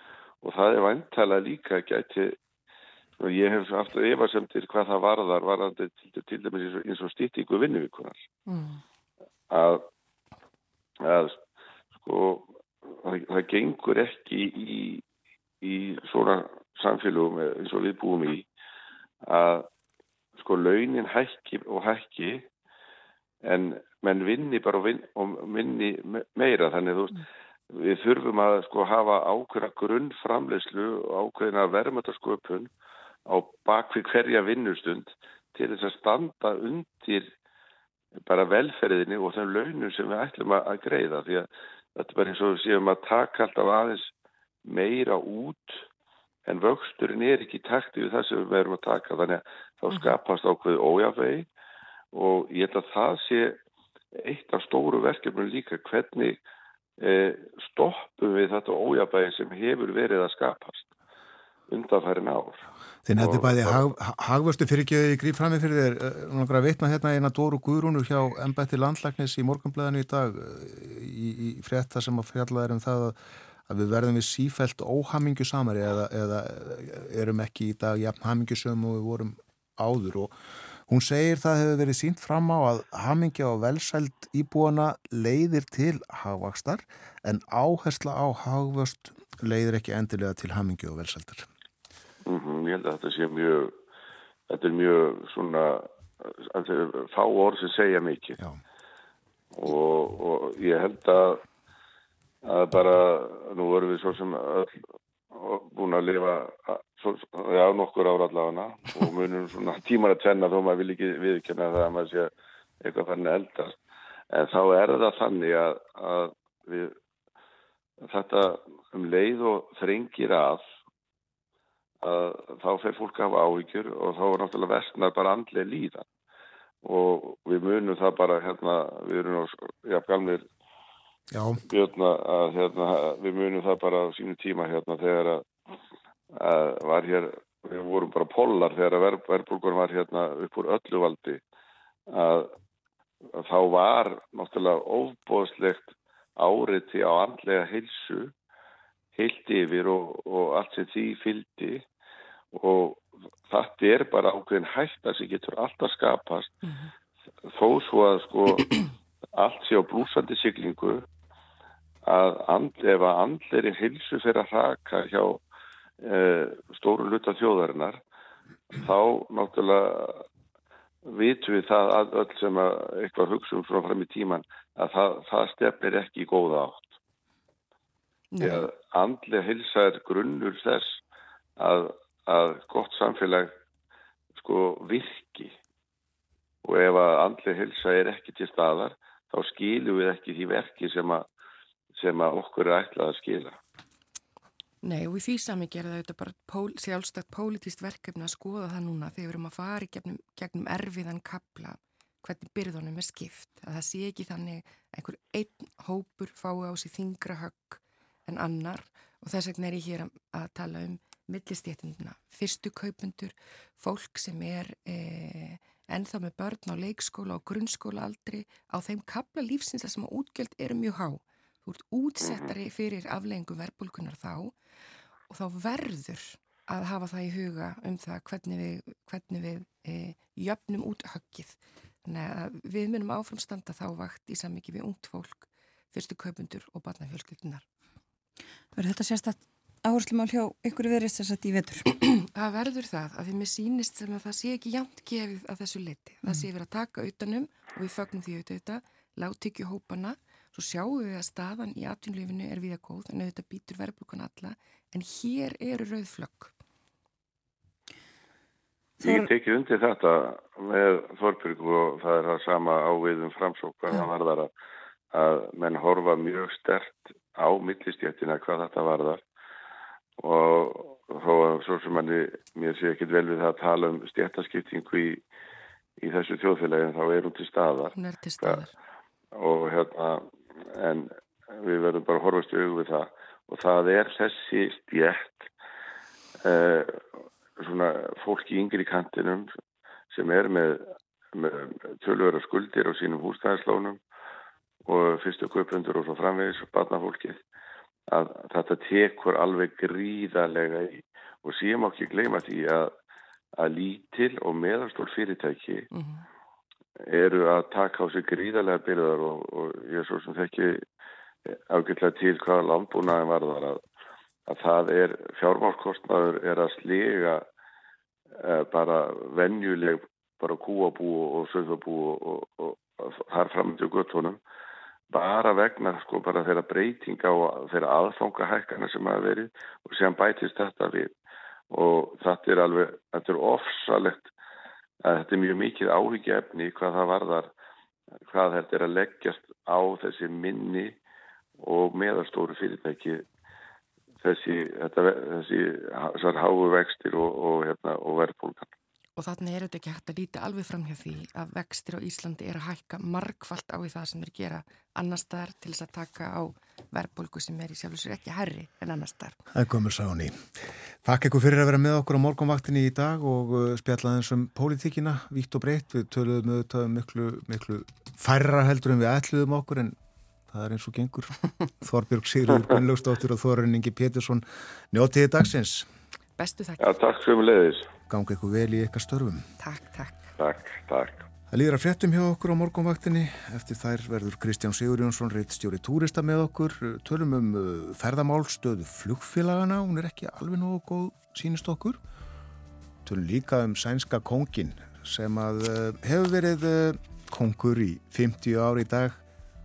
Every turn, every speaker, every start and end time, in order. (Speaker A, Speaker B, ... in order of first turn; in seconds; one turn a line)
Speaker A: 0.4-2.4
Speaker A: 3.2-8.2
Speaker B: 8.5-8.8
Speaker A: 9.5-9.8
Speaker A: 11.0-11.4
Speaker A: 12.0-15.0
Speaker A: 15.6-18.5
Speaker A: 19.2-19.7
Speaker A: 20.4-22.5
Speaker A: 23.4-32.7
Speaker A: 33.3-37.3
Speaker A: 38.3-44.1
Speaker A: 44.7-45.8
Speaker A: 46.5-51.5
Speaker A: 52.1-53.6
Speaker A: 54.2-56.4
Speaker A: 57.0-60.9
Speaker A: 61.7-62.6
Speaker C: 63.0-80.3
Speaker A: 63.2-63.8
Speaker C: 80.9-91.5
Speaker A: 92.3-93.8
Speaker A: 94.5-98.4
Speaker A: 99.5-101.4
Speaker A: 102.4-113.8
Speaker A: 114.3-117.0
Speaker A: 118.0-120.6
Speaker A: 122.0-126.0
Speaker A: 126.8-130.5
Speaker C: 131.3-131.6
Speaker A: 131.7-135.5
Speaker A: 136.3-141.4
Speaker A: 142.1-142.5
Speaker A: 143.4-148.3
Speaker A: 149.2-151.8
Speaker A: 152.5-156.6
Speaker B: 156.6-156.9
Speaker A: 157.5-158.7
Speaker A: 159.4-161.1
Speaker A: 162.1-165.4
Speaker A: 166.0-168.0
Speaker A: 168.7-170.2
Speaker A: 171.1-176.9
Speaker B: 178.3-178.7
Speaker A: 178.4-181.0
Speaker A: 181.6-183.5
Speaker A: 184.4-185.5
Speaker A: 186.6-191.2
Speaker A: 191.9-193.6
Speaker B: 194.8-224.6
Speaker B: 225.3-237.7
Speaker D: 238.8-241.9
Speaker B: 242.2-256.5
Speaker A: 259.0-264.5
Speaker A: 265.1-269.2
Speaker A: 270.2-275.2
Speaker A: 276.0-278.6
Speaker B: 277.9-278.7
Speaker A: 279.4-285.5
Speaker A: 286.4-287.1
Speaker A: 287.6-289.5
Speaker A: 290.1-294.0
Speaker A: 294.9-297.4
Speaker A: 298.1-302.9
Speaker A: 303.6-305.9
Speaker B: 305.9-306.2
Speaker A: 307.1-310.9
Speaker A: 311.5-313.8
Speaker A: 314.5-317.4
Speaker A: 318.4-324.4
Speaker A: 325.1-331.1
Speaker A: 331.7-334.3
Speaker A: 335.0-337.5
Speaker A: 338.3-341.0
Speaker A: 341.6-343.2
Speaker A: 344.2-348.7
Speaker B: 349.2-359.4
Speaker C: 359.5-370.0
Speaker C: 370.5-375.9
Speaker B: 376.4-376.8
Speaker A: 376.8-377.9
Speaker C: 378.1-379.5
Speaker B: 379.6-380.3
Speaker A: 380.4-381.2
Speaker C: 381.5-392.0
Speaker C: 393.1-399.2